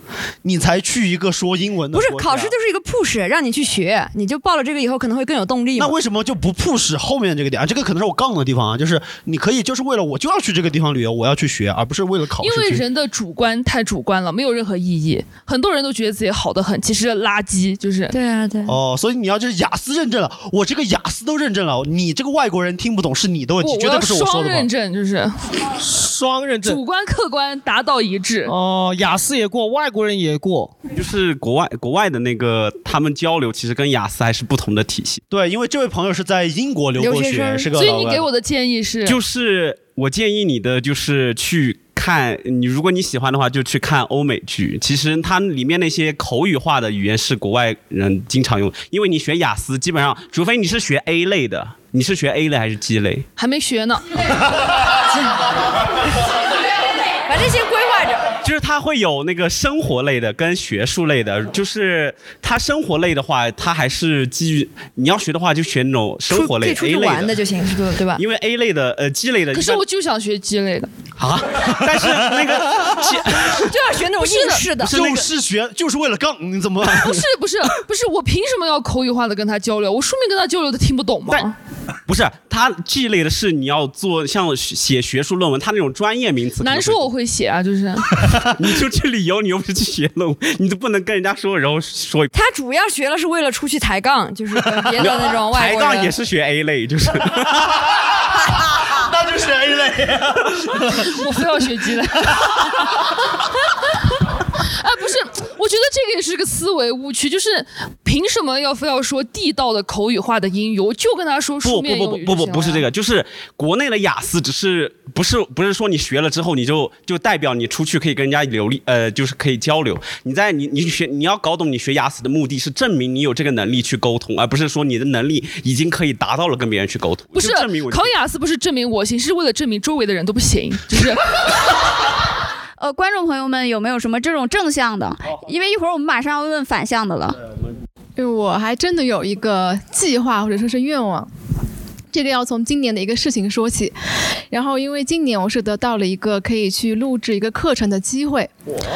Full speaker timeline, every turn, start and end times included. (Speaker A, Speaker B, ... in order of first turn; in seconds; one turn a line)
Speaker A: 0.4-2.5
Speaker B: 1.9-5.9
Speaker A: 5.8-12.8
Speaker C: 12.4-18.1
Speaker A: 18.6-24.7
Speaker C: 23.6-25.3
Speaker D: 25.8-26.8
Speaker C: 26.6-28.5
Speaker D: 28.4-30.7
Speaker E: 30.9-35.2
Speaker A: 35.3-38.3
Speaker C: 37.4-39.2
Speaker E: 39.0-53.2
Speaker C: 53.4-54.2
Speaker B: 57.2-58.3
Speaker E: 58.4-67.4
Speaker B: 66.3-68.2
Speaker E: 68.2-69.8
Speaker C: 69.5-70.9
Speaker E: 71.2-73.6
Speaker B: 73.5-75.1
Speaker A: 74.8-77.3
Speaker E: 74.9-75.2
Speaker C: 76.9-81.5
Speaker E: 82.1-87.1
Speaker C: 86.6-88.2
Speaker E: 88.6-92.3
Speaker B: 92.3-96.0
Speaker C: 94.9-95.9
Speaker E: 95.0-97.5
Speaker A: 98.9-100.9
Speaker C: 101.0-102.9
Speaker C: 104.8-112.9
Speaker E: 111.6-128.1
Speaker C: 127.3-131.4
Speaker F: 132.8-137.4
Speaker G: 138.2-141.3
Speaker G: 142.1-148.5